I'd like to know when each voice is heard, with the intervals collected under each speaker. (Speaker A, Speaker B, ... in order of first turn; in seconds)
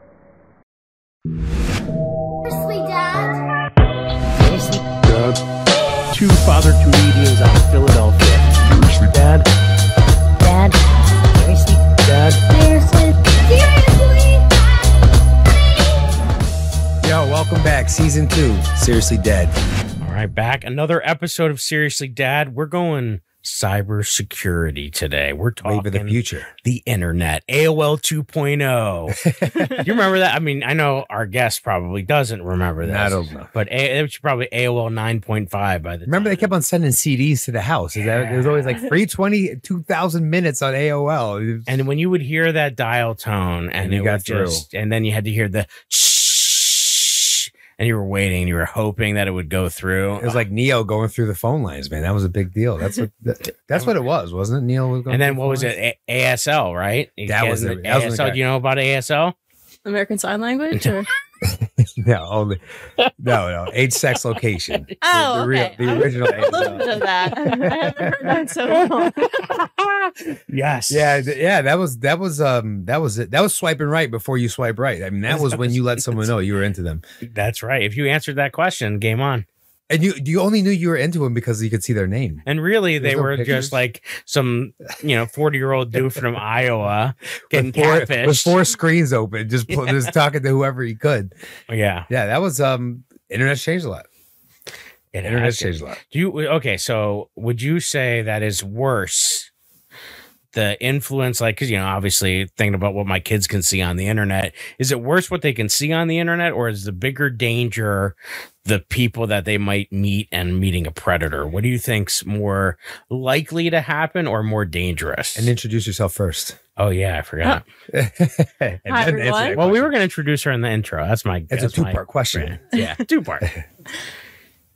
Speaker A: 2.5-3.4, 12.5-14.5
Speaker B: 4.4-5.4, 6.1-9.4, 10.4-10.7, 11.3-12.4, 20.0-29.2, 29.7-36.5, 38.1-38.7, 41.7-50.4, 55.1-59.3, 65.9-66.8, 69.0-71.3, 75.3-76.2, 77.2-79.5, 82.5-88.5, 89.7-90.0, 91.7-92.1, 95.1-99.5, 100.5-115.5, 116.8-117.6, 119.5-123.5
Speaker C: 17.0-19.5, 25.6-26.5, 29.2-29.9, 32.8-33.5, 36.1-41.7, 43.8-44.6, 50.2-55.7, 57.3-58.4, 61.4-62.6, 63.2-66.9, 67.6-67.9, 70.9-77.0, 79.9-82.4, 83.0-83.8, 87.5-91.3, 92.1-94.0, 95.2-96.0, 115.3-116.6, 117.9-120.0, 121.5-122.6
Speaker D: 59.9-61.1, 65.0-69.3, 118.9-119.6